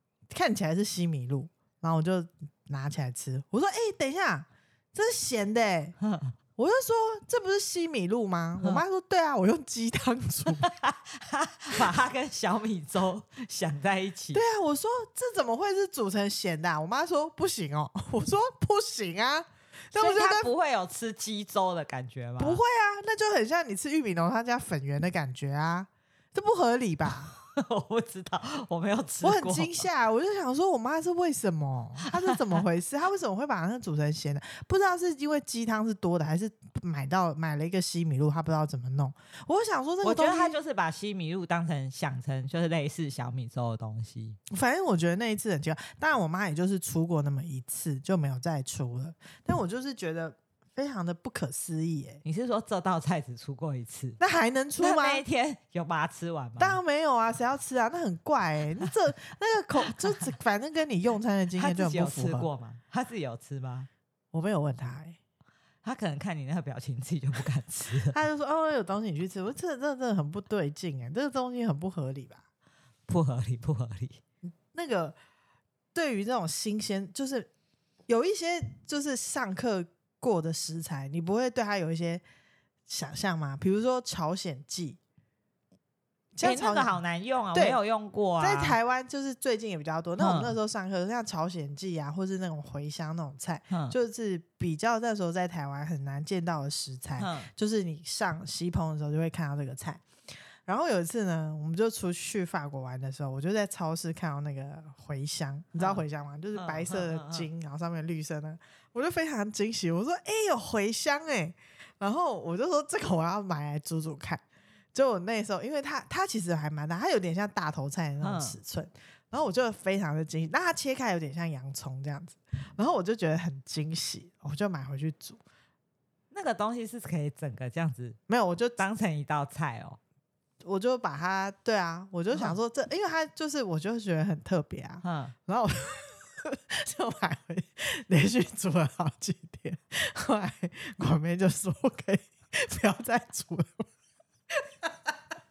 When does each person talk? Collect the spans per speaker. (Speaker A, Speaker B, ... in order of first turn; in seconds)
Speaker A: 0.3-6.0, 6.6-10.7, 14.3-20.5, 22.4-27.3, 29.2-40.6, 44.5-52.2, 54.2-55.2, 56.6-62.5, 64.3-65.2, 68.1-72.4, 74.5-75.2, 75.9-77.5, 78.1-82.2, 82.9-85.0, 86.3-87.0, 87.5-87.8, 88.4-100.0, 100.7-114.4, 114.9-125.4, 128.3-128.8, 130.6-143.9, 144.5-145.2
Speaker B: 6.0-6.3, 10.5-14.4, 19.9-22.6, 27.3-29.8, 32.1-32.4, 40.0-44.4, 52.2-54.2, 54.8-56.8, 61.6-63.9, 65.8-68.2, 73.1-74.2, 86.4-88.8, 90.2-90.5, 93.7-94.0, 97.2-97.5, 106.5-107.5, 118.2-118.6, 126.3-128.2, 128.8-130.0, 135.0-135.3